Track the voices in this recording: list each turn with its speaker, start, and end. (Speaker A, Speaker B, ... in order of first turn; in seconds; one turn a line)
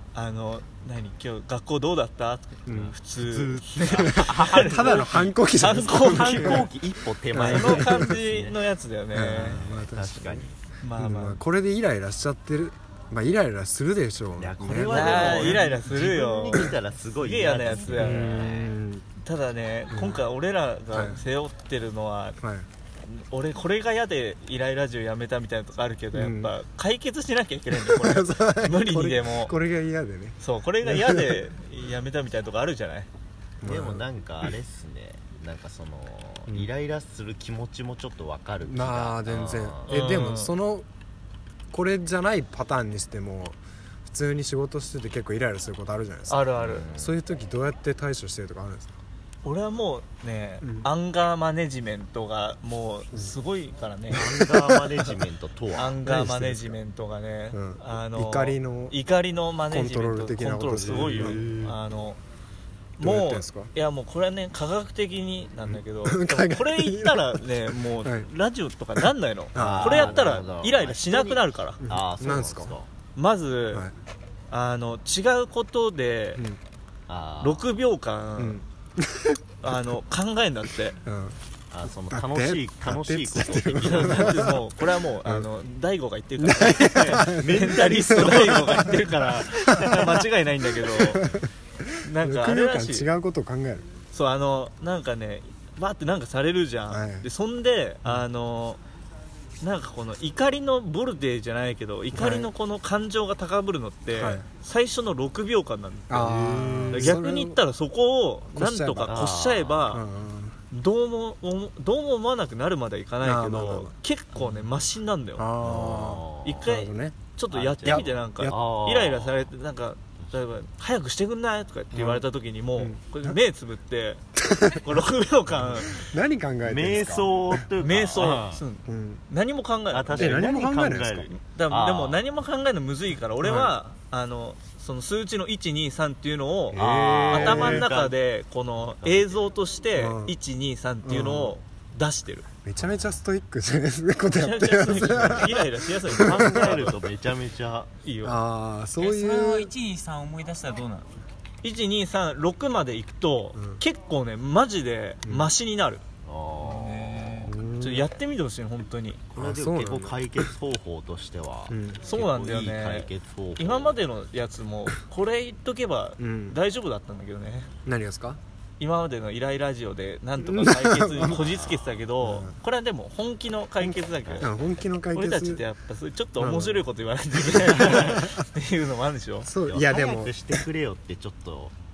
Speaker A: 0.1-6.7
Speaker B: 2.6-3.0
Speaker C: 2.7-5.2
Speaker B: 3.9-6.7
Speaker C: 5.8-8.6
Speaker B: 7.3-8.2
Speaker A: 7.3-9.6
Speaker B: 9.1-15.7
Speaker C: 9.4-10.5
Speaker A: 10.8-11.4
Speaker C: 14.4-18.7
Speaker A: 14.9-18.6
Speaker B: 18.0-19.0
Speaker A: 19.2-22.4
Speaker B: 19.9-20.2
Speaker B: 20.9-21.2
Speaker B: 22.4-22.6
Speaker A: 23.0-29.6
Speaker B: 26.1-26.5
Speaker B: 27.7-31.4
Speaker A: 30.4-33.1
Speaker B: 33.6-34.5
Speaker C: 33.6-40.1
Speaker B: 38.6-40.9
Speaker A: 39.9-40.5
Speaker B: 41.7-49.0
Speaker A: 46.3-46.9
Speaker C: 46.5-47.2
Speaker A: 49.4-54.5
Speaker B: 50.6-50.9
Speaker C: 54.1-56.2
Speaker B: 54.2-55.0
Speaker A: 55.7-62.2
Speaker B: 56.0-56.8
Speaker B: 57.5-59.0
Speaker B: 59.7-61.6
Speaker C: 60.8-61.8
Speaker A: 63.0-71.8
Speaker B: 63.0-63.7
Speaker B: 65.6-68.3
Speaker B: 69.5-70.3
Speaker C: 69.5-72.9
Speaker B: 71.8-72.7
Speaker A: 73.1-73.9
Speaker A: 74.5-76.4
Speaker C: 77.1-77.6
Speaker A: 77.4-78.6
Speaker B: 78.4-79.4
Speaker A: 79.6-81.0
Speaker B: 81.0-81.4
Speaker C: 81.7-84.5
Speaker B: 82.1-84.6
Speaker A: 83.8-91.2
Speaker B: 86.4-89.0
Speaker C: 87.1-89.1
Speaker B: 89.6-90.2
Speaker B: 90.8-93.9
Speaker A: 92.0-93.1
Speaker A: 94.1-98.8
Speaker B: 96.9-97.2
Speaker A: 99.6-110.0
Speaker B: 102.1-102.5
Speaker B: 104.1-104.4
Speaker B: 106.1-107.6
Speaker C: 106.4-107.2
Speaker B: 108.5-109.2
Speaker C: 109.1-110.0
Speaker B: 109.9-110.6
Speaker A: 110.7-115.5
Speaker B: 113.2-113.9
Speaker C: 114.3-114.7
Speaker B: 115.4-117.2
Speaker C: 115.6-116.7
Speaker A: 116.4-126.0
Speaker C: 117.5-119.5
Speaker B: 117.8-118.5
Speaker B: 121.9-122.2
Speaker B: 122.8-123.3
Speaker B: 124.4-125.0
Speaker B: 125.6-127.7
Speaker C: 126.6-128.6
Speaker A: 127.8-130.5
Speaker B: 128.8-129.2
Speaker C: 129.9-132.2
Speaker B: 130.1-131.3
Speaker A: 131.3-142.4
Speaker B: 133.4-133.7
Speaker B: 136.7-137.9
Speaker C: 136.7-138.1
Speaker C: 138.8-139.5
Speaker B: 139.9-140.3
Speaker B: 141.0-141.6
Speaker B: 142.6-146.8
Speaker C: 142.8-143.2
Speaker A: 144.2-147.0
Speaker C: 145.1-145.4
Speaker C: 146.1-147.9
Speaker A: 148.0-148.4
Speaker B: 148.2-149.7
Speaker D: 149.0-151.2
Speaker A: 151.6-156.0
Speaker B: 153.6-153.8
Speaker B: 155.2-155.5
Speaker C: 156.2-157.5
Speaker A: 156.6-159.2
Speaker B: 157.4-158.1
Speaker C: 159.3-164.0
Speaker B: 159.3-160.2
Speaker B: 161.7-162.0
Speaker A: 162.0-167.7
Speaker B: 166.2-166.6
Speaker B: 167.8-168.4
Speaker A: 168.8-174.5
Speaker B: 170.4-171.4
Speaker C: 171.2-171.9
Speaker B: 172.2-172.5
Speaker B: 173.8-175.6
Speaker C: 174.2-174.5
Speaker A: 175.1-179.5
Speaker B: 176.4-176.8
Speaker B: 177.5-178.4
Speaker B: 179.4-180.6
Speaker C: 179.6-181.7